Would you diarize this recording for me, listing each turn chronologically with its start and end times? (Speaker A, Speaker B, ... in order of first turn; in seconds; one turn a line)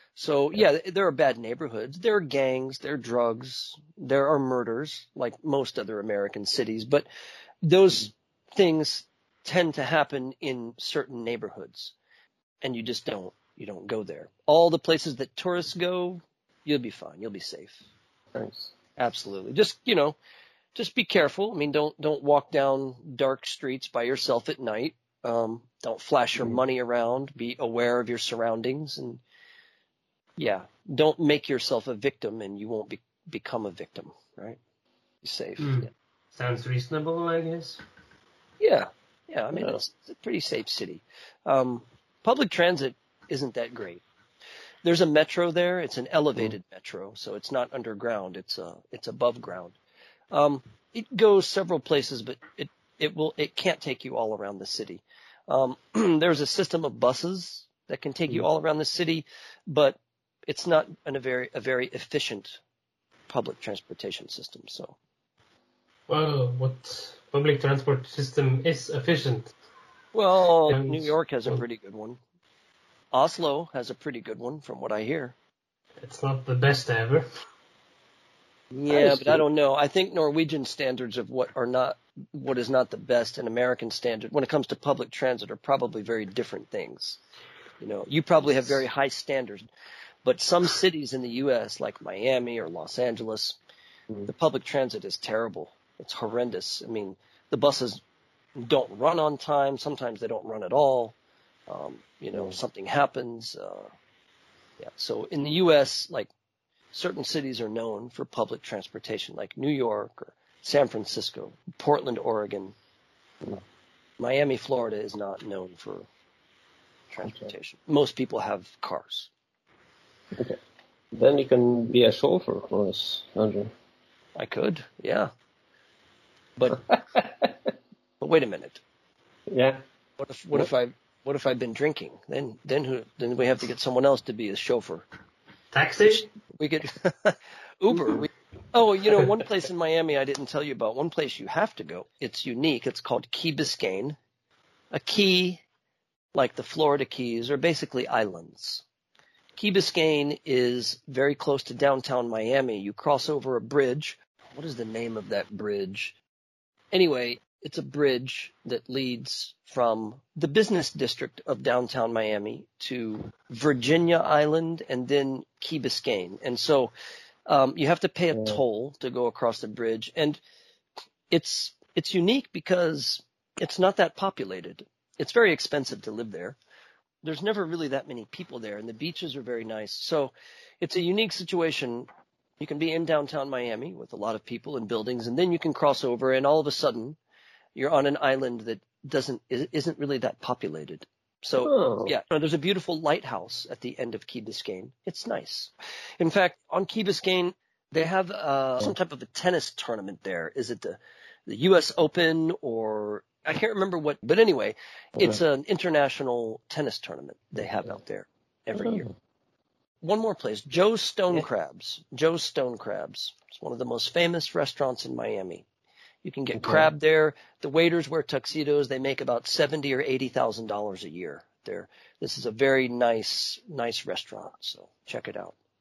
Speaker A: 0.1-7.1
Speaker A: 7.6-11.9
Speaker A: 12.6-17.8
Speaker B: 18.4-18.7
Speaker A: 19.0-20.2
Speaker A: 20.8-29.2
Speaker A: 30.4-34.6
Speaker A: 35.2-35.9
Speaker C: 35.6-37.8
Speaker A: 38.6-44.0
Speaker A: 44.8-49.8
Speaker A: 50.3-62.6
Speaker A: 63.3-65.0
Speaker C: 66.1-69.5
Speaker A: 70.1-72.2
Speaker C: 70.7-71.6
Speaker A: 73.1-75.3
Speaker C: 76.0-77.3
Speaker B: 78.7-79.4
Speaker A: 78.9-87.2
Speaker A: 87.8-89.7
Speaker A: 90.2-93.6
Speaker A: 94.3-98.0
Speaker A: 98.6-101.1
Speaker A: 101.7-103.9
Speaker A: 104.8-106.3
Speaker A: 106.9-112.8
Speaker A: 114.2-116.1
Speaker A: 117.1-119.3
Speaker B: 117.2-117.5
Speaker B: 121.1-123.7
Speaker A: 124.4-125.3
Speaker B: 126.9-127.5
Speaker A: 128.2-128.8
Speaker B: 129.5-129.8
Speaker A: 130.2-135.1
Speaker C: 135.7-136.3
Speaker A: 136.6-144.2
Speaker A: 144.9-145.6
Speaker A: 146.3-148.8
Speaker A: 149.6-156.1
Speaker A: 156.9-166.9
Speaker A: 167.4-170.4
Speaker B: 168.3-168.6
Speaker A: 171.3-176.6
Speaker A: 177.2-182.1
Speaker A: 182.6-187.2
Speaker A: 187.7-209.1
Speaker B: 191.6-192.1
Speaker B: 208.7-209.1
Speaker A: 210.0-215.7
Speaker A: 216.2-225.6
Speaker B: 216.6-216.9